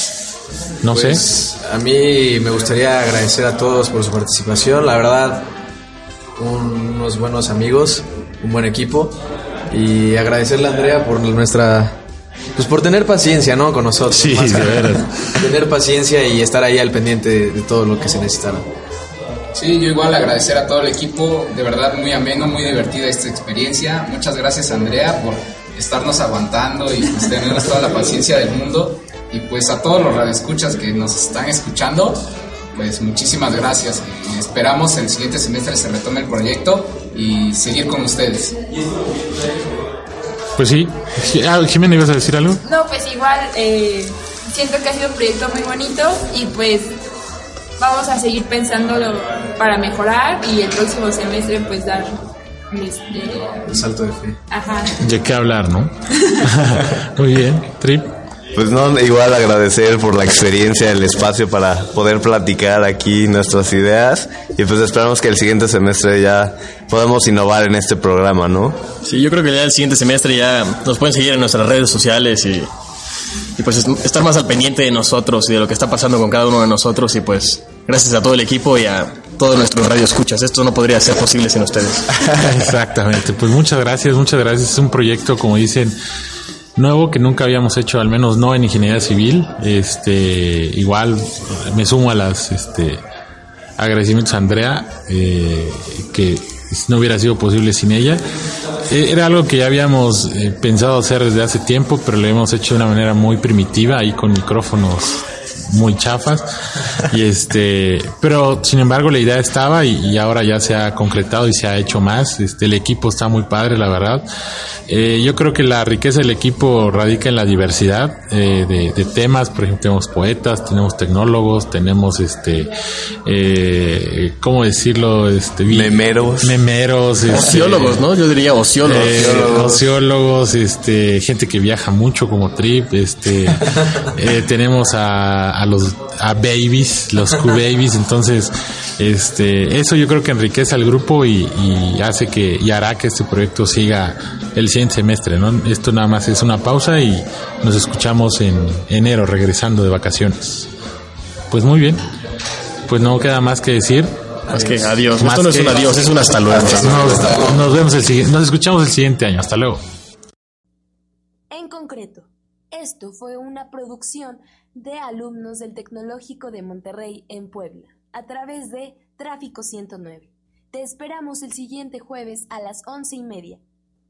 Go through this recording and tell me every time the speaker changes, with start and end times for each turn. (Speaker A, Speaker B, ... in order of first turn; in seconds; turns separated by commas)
Speaker A: 0.8-1.2, Speaker B: 0.9-5.5, Speaker B: 6.4-9.2, Speaker B: 9.7-12.0, Speaker B: 12.6-18.7, Speaker A: 14.1-15.3, Speaker C: 19.6-38.6, Speaker A: 40.6-42.6, Speaker D: 42.6-47.0, Speaker D: 47.8-53.6, Speaker B: 53.6-54.4, Speaker D: 54.5-55.0, Speaker A: 55.0-58.1, Speaker E: 58.5-68.8, Speaker F: 69.0-72.7, Speaker F: 73.6-82.2, Speaker A: 82.3-86.0, Speaker A: 86.8-93.0, Speaker A: 93.8-98.2, Speaker A: 98.9-114.2, Speaker A: 114.9-122.7, Speaker A: 123.2-128.1, Speaker E: 125.7-126.6, Speaker F: 127.3-129.7, Speaker A: 128.8-150.7, Speaker E: 128.9-129.8, Speaker A: 151.5-152.1, Speaker A: 152.9-154.4, Speaker F: 154.5-157.2, Speaker A: 155.2-156.0, Speaker B: 156.4-157.6, Speaker A: 156.6-159.8, Speaker G: 161.5-173.6